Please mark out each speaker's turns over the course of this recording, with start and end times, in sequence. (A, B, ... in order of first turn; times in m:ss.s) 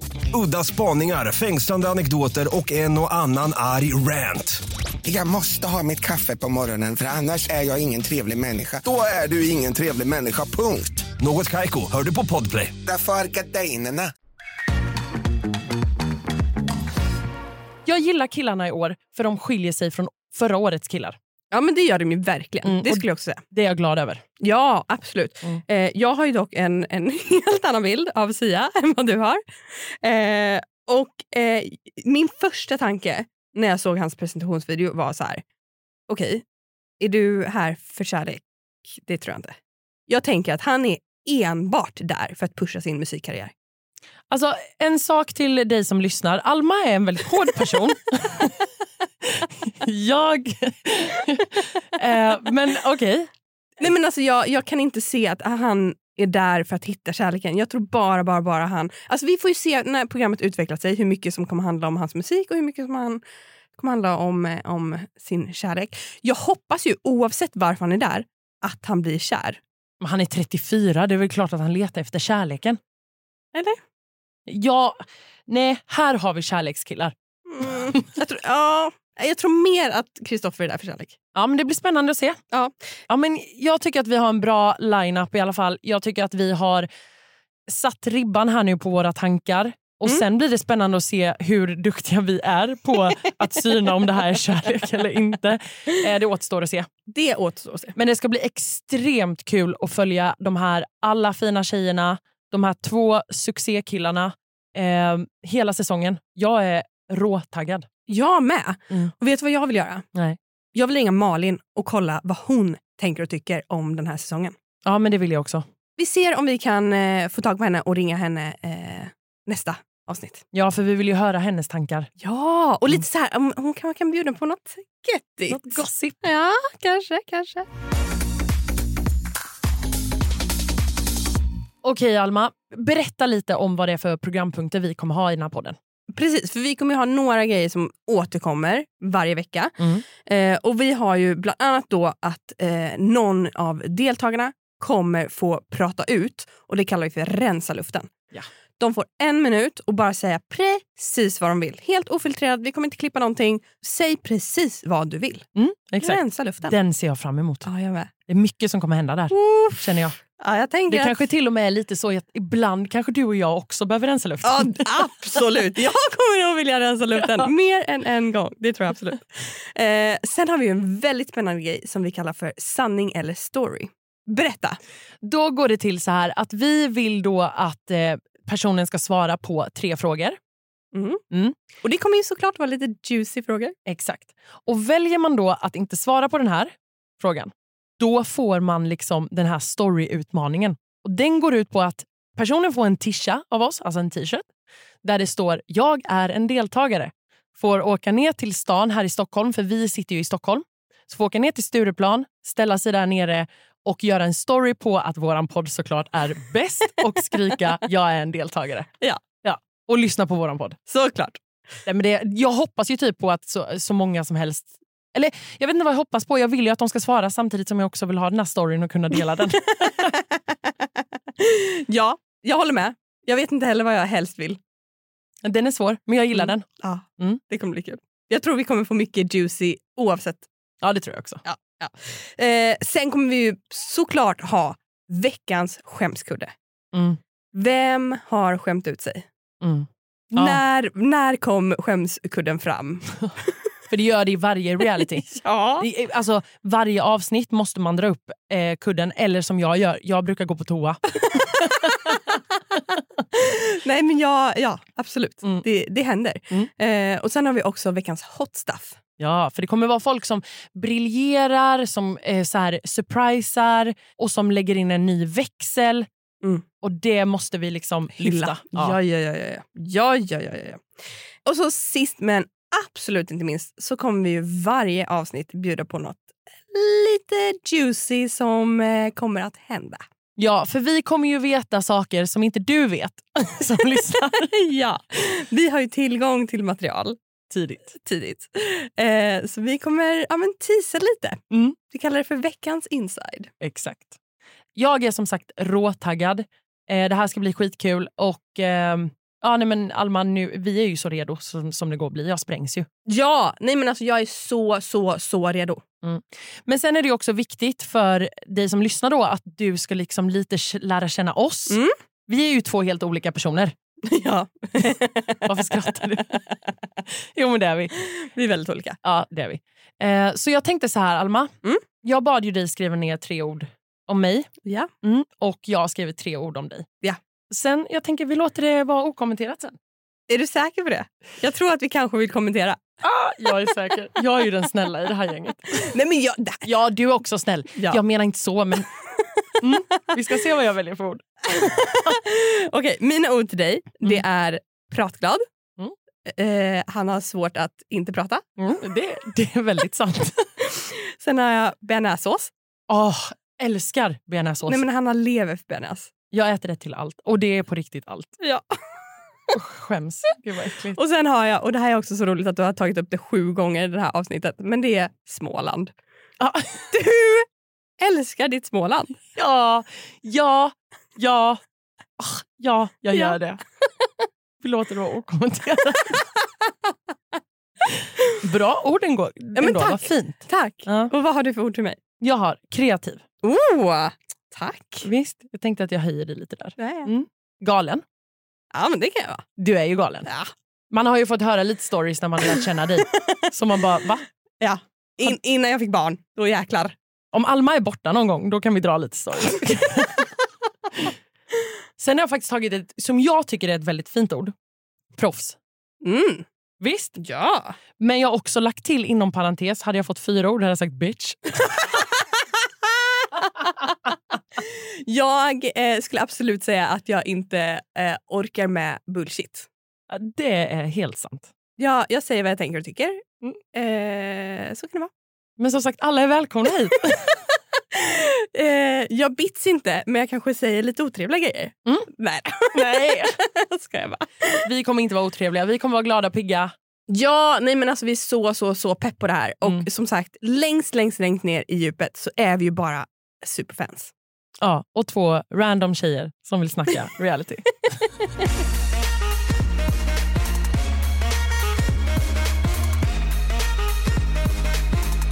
0:00.3-0:04.6 A
0:05.0-0:08.8 B
0:08.8-0:11.0 C
0:10.0-0:10.9 B
0:11.2-0:12.8 A
0:12.8-0:14.1 B
0:17.8-0:21.2 D
0:21.5-0:23.4 E
0:22.6-0:24.2 D
0:24.4-0:35.4 E
0:36.1-0:36.4 E
0:37.0-0:39.6 E
0:40.1-0:43.5 E
0:44.3-0:48.7 D
0:49.4-0:53.3 D
0:53.8-1:03.2 E
1:03.8-1:09.6 E
1:10.0-1:12.8 D
1:13.5-1:13.8 E
1:14.5-1:15.0 D
1:15.5-1:17.1 D
1:17.5-1:21.2 E
1:21.4-1:22.4 D
1:23.1-1:26.9 D
1:27.7-1:36.9 D
1:37.1-1:38.0 E
1:38.0-1:47.9 D
1:48.1-1:50.0 E
1:50.8-1:54.6 E
1:54.8-1:55.6 D
1:56.0-2:00.4 E
2:00.5-2:02.1 D
2:02.2-2:07.7 E
2:05.5-2:06.2 D
2:11.8-2:15.8 D
2:16.1-2:28.1 E
2:28.8-2:35.5 E
2:35.6-2:37.7 D
2:36.0-2:36.8 E
2:37.6-2:38.1 E
2:38.3-2:40.2 D
2:39.3-2:39.8 E
2:40.4-2:41.2 E
2:40.9-2:45.0 D
2:44.4-2:54.8 E
2:55.2-3:00.4 D
3:00.9-3:01.2 E
3:01.8-3:03.7 E
3:03.9-3:14.4 D
3:15.0-3:28.9 D
3:29.4-3:30.8 D
3:30.9-3:31.4 E
3:31.8-3:40.1 D
3:40.1-3:40.6 E
3:41.4-3:44.6 E
3:45.4-3:46.6 D
3:46.3-3:50.5 E
3:50.8-3:51.4 D
3:51.4-3:56.5 E
3:56.9-3:57.2 D
3:57.5-3:59.2 E
3:59.6-4:00.6 D
4:00.3-4:03.2 E
4:03.9-4:12.1 D
4:05.3-4:05.9 E
4:13.3-4:19.0 E
4:19.2-4:26.1 D
4:26.8-4:29.0 D
4:28.1-4:30.8 E
4:31.4-4:40.0 E
4:40.4-4:44.5 D
4:44.3-4:47.2 E
4:47.5-4:47.9 D
4:47.9-4:53.5 E
4:53.6-4:54.2 D
4:54.8-5:02.9 D
5:03.1-5:05.8 E
5:06.0-5:13.7 D
5:11.7-5:11.9 E
5:14.1-5:15.5 E
5:15.4-5:16.4 D
5:17.3-5:17.9 D
5:18.0-5:19.0 E
5:19.0-5:21.5 D
5:22.0-5:24.5 D
5:24.6-5:24.9 E
5:25.0-5:26.8 D
5:27.5-5:29.8 D
5:30.3-5:32.8 E
5:33.0-5:35.9 D
5:35.8-5:36.7 E
5:36.6-5:38.9 D
5:39.6-5:41.2 D
5:41.5-5:45.4 E
5:46.3-5:48.4 E
5:48.6-5:50.4 D
5:50.6-5:52.5 E
5:52.9-5:54.8 D
5:54.7-5:56.1 E
5:56.3-5:58.3 D
5:58.4-5:58.7 E
5:59.5-6:01.0 D
6:01.0-6:05.9 E
6:06.4-6:06.9 D
6:06.9-6:07.5 E
6:08.0-6:09.2 E
6:09.4-6:11.6 D
6:12.2-6:13.6 D
6:14.6-6:16.2 D
6:18.4-6:21.1 D
6:19.6-6:22.0 E
6:22.2-6:23.2 D
6:23.4-6:25.1 E
6:25.0-6:28.0 D
6:26.8-6:27.1 E
6:28.7-6:29.4 E
6:29.6-6:30.3 D
6:30.3-6:30.5 E
6:30.9-6:34.2 D
6:33.1-6:33.4 E
6:34.6-6:36.9 E
6:37.3-6:40.3 D
6:42.0-6:44.5 D
6:45.2-6:45.6 D
6:46.0-6:46.4 E
6:46.8-6:47.2 D
6:47.2-6:47.8 E
6:48.0-6:51.7 D
6:54.6-6:59.7 E
7:00.1-7:01.5 D
7:01.8-7:05.1 E
7:05.6-7:07.3 D
7:07.9-7:14.7 E
7:12.8-7:13.3 D
7:14.6-7:16.7 D
7:17.1-7:24.1 E
7:24.6-7:28.0 D